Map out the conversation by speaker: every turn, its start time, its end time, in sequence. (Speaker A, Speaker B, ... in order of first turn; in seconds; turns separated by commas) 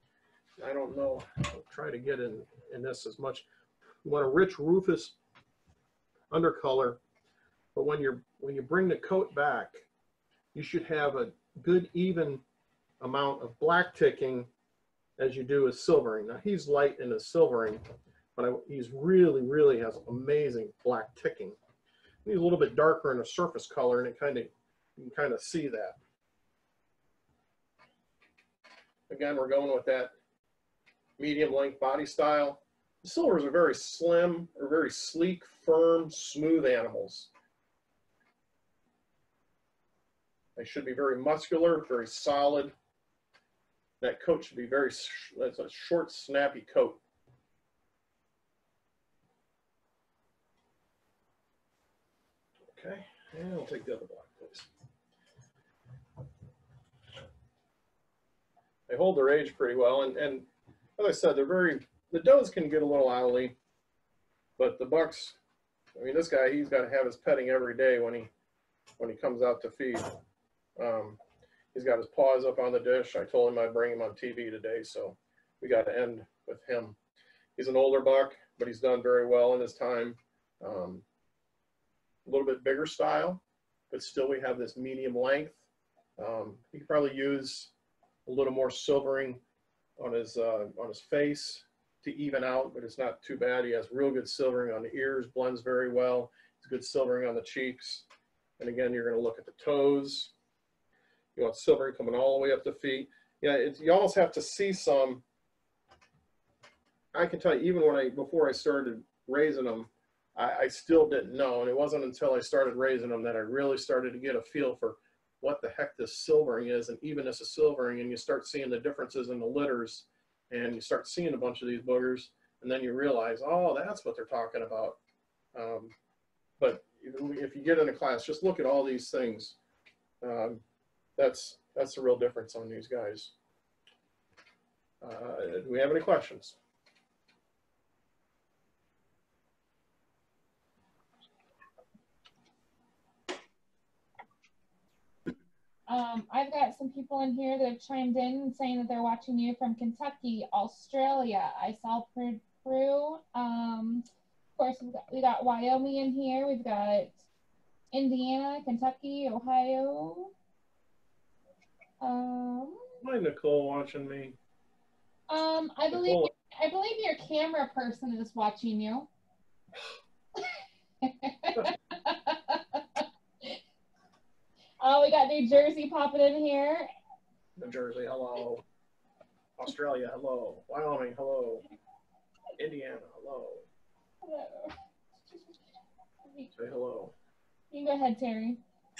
Speaker A: 0.6-3.5, Speaker A: 4.0-5.2, Speaker A: 6.3-7.0, Speaker A: 7.7-9.8, Speaker A: 10.5-12.4, Speaker A: 13.0-14.5, Speaker A: 15.2-17.8, Speaker A: 18.4-21.6, Speaker A: 22.2-26.0, Speaker A: 29.1-30.1, Speaker A: 31.2-37.3, Speaker A: 40.6-42.7, Speaker A: 44.0-47.0, Speaker A: 52.7-54.7, Speaker A: 58.9-60.5, Speaker A: 61.0-63.6, Speaker A: 64.6-65.4, Speaker A: 66.0-68.3, Speaker A: 69.0-70.2, Speaker A: 70.8-71.2, Speaker A: 71.7-77.0, Speaker A: 77.6-81.0, Speaker A: 82.2-85.6, Speaker A: 86.2-87.7, Speaker A: 88.3-89.4, Speaker A: 90.0-98.1, Speaker A: 98.6-100.3, Speaker A: 101.4-105.2, Speaker A: 107.1-125.0, Speaker A: 125.5-125.9, Speaker A: 126.6-129.6, Speaker A: 130.2-130.6, Speaker A: 131.2-133.3, Speaker A: 135.0-136.6, Speaker B: 145.9-154.1, Speaker B: 154.6-157.2, Speaker B: 157.9-160.3, Speaker B: 162.0-162.8, Speaker A: 163.0-164.4, Speaker B: 165.3-169.1, Speaker A: 165.9-166.3, Speaker B: 171.0-173.6, Speaker B: 174.8-176.9, Speaker A: 177.6-178.6, Speaker A: 179.6-181.7, Speaker A: 182.6-183.7, Speaker B: 184.2-184.8, Speaker A: 186.5-187.1, Speaker B: 187.7-188.6